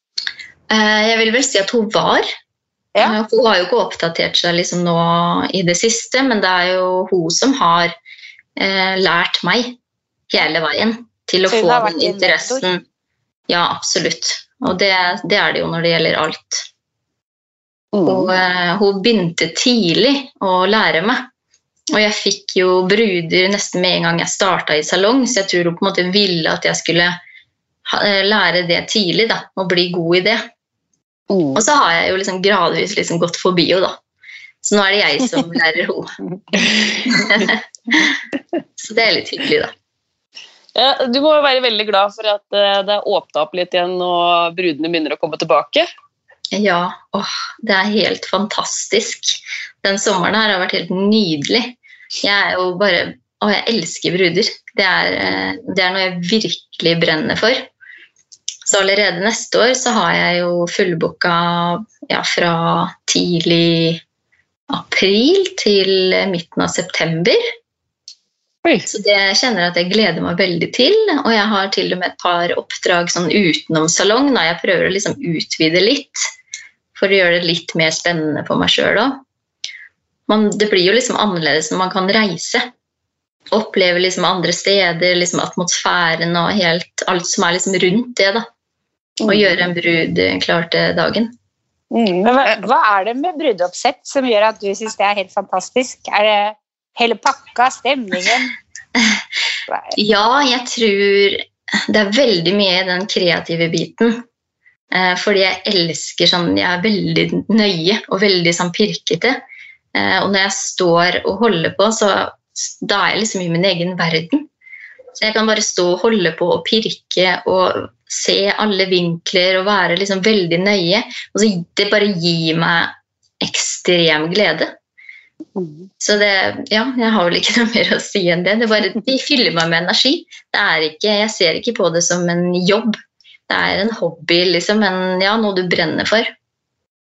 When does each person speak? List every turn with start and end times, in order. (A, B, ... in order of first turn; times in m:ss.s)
0:00.7-0:02.3 A
0:03.0-0:07.9 A
0:08.6-0:09.8 A
0:10.3-0:12.8 A
0:11.5-0:12.6 B
0:13.5-0:16.6 A
0:17.9-0:18.3 C
0:18.0-0:21.2 A
0:21.9-0:27.2 A
0:27.8-0:30.4 A
0:31.3-0:31.6 C
0:31.5-0:34.0 A
0:34.6-0:38.1 A
0:36.6-0:37.5 C
0:38.8-0:39.7 A
0:40.7-0:45.9 C
0:46.5-0:57.7 A
0:58.6-1:04.0 A
1:04.7-1:07.4 A
1:08.9-1:16.2 A
1:17.0-1:19.2 A
1:20.3-1:22.7 A
1:23.5-1:28.4 A
1:29.2-1:29.6 C
1:29.3-1:31.3 A
1:31.9-1:32.6 C
1:32.2-1:38.5 B
1:39.9-1:44.2 A
1:44.9-1:49.4 A
1:49.9-1:54.5 A
1:55.2-2:04.7 A
2:05.6-2:05.9 C
2:06.0-2:13.0 A
2:13.5-2:16.3 A